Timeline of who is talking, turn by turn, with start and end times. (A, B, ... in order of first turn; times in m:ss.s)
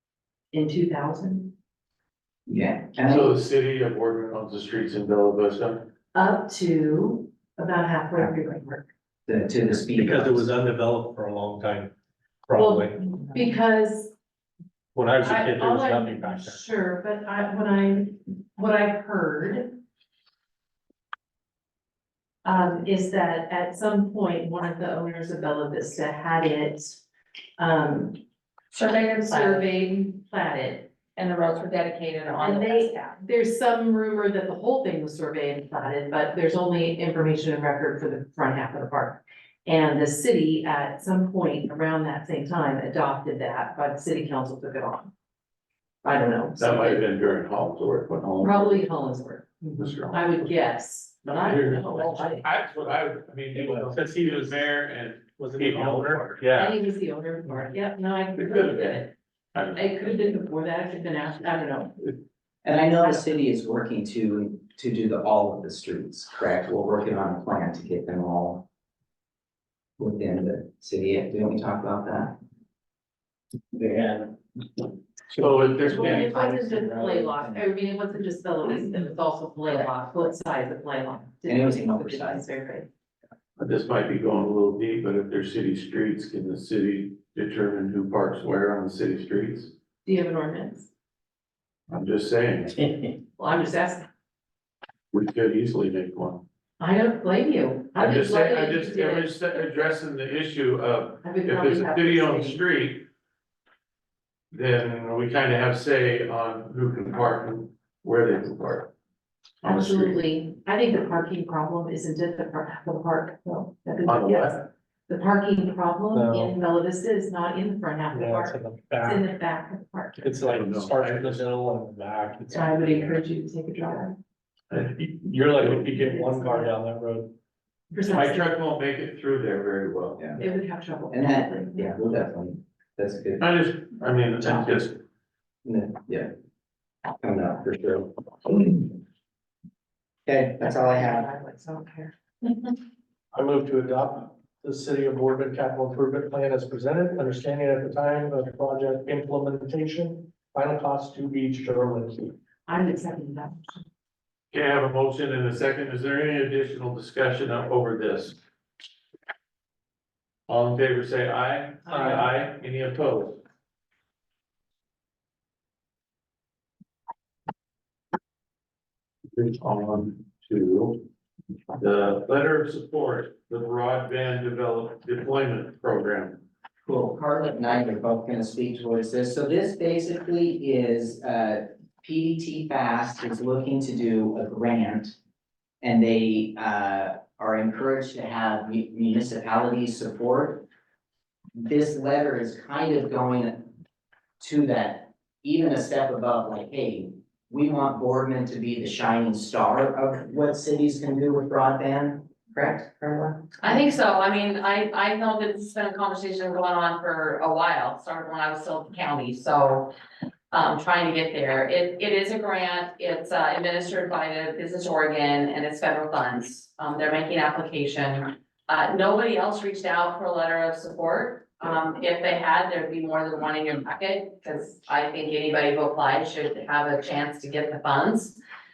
0:00.5-0:01.5 A
0:02.5-0:03.3 B
0:03.1-0:05.9 C
0:06.1-0:08.9 A
0:09.3-0:10.5 B
0:09.9-0:11.9 D
0:12.4-0:13.0 D
0:12.6-0:14.1 A
0:14.9-0:16.6 D
0:15.2-0:19.8 A
0:22.4-0:27.0 A
0:27.6-0:28.2 A
0:28.7-0:29.8 E
0:29.3-0:30.9 A
0:31.1-0:33.1 E
0:32.4-0:45.1 A
0:46.0-0:47.0 A
0:46.6-0:48.8 C
0:48.4-0:52.5 A
0:49.8-0:50.3 C
0:51.3-0:56.4 C
0:51.4-0:52.2 D
0:53.5-0:54.7 D
0:55.3-0:56.8 D
0:56.5-0:59.1 A
0:58.3-1:00.1 C
0:59.7-1:02.1 A
1:02.6-1:08.6 B
1:10.0-1:12.3 B
1:13.7-1:14.3 B
1:15.3-1:16.4 C
1:15.8-1:17.6 B
1:15.8-1:22.9 A
1:21.5-1:22.4 B
1:23.6-1:29.7 C
1:30.0-1:30.9 A
1:31.9-1:32.8 C
1:33.4-1:34.1 A
1:35.1-1:36.4 C
1:36.8-1:39.3 A
1:38.0-1:43.1 C
1:41.2-1:42.6 A
1:44.5-1:48.9 C
1:49.6-1:50.2 C
1:49.6-2:00.3 A
1:54.0-1:54.6 C
1:56.1-1:56.6 D
1:58.1-1:59.2 D
2:00.2-2:03.1 D
2:00.3-2:01.4 C
2:02.5-2:04.2 A
2:04.7-2:05.9 C
2:05.2-2:07.3 D
2:05.9-2:06.7 A
2:07.9-2:08.6 A
2:08.1-2:10.3 C
2:10.4-2:12.0 A
2:11.1-2:13.4 B
2:13.4-2:15.0 C
2:15.6-2:16.3 B
2:17.2-2:18.9 B
2:20.2-2:21.3 B
2:20.6-2:22.7 A
2:23.3-2:32.3 D
2:32.7-2:33.8 A
2:34.5-2:38.4 C
2:40.5-2:43.4 C
2:41.9-2:42.2 A
2:41.9-2:42.2 D
2:49.3-2:51.1 C
2:51.8-2:56.4 C
2:56.8-3:05.1 B
3:05.8-3:10.6 B
3:11.5-3:13.7 B
3:14.4-3:23.5 B
3:23.6-3:29.9 E
3:30.5-3:48.4 E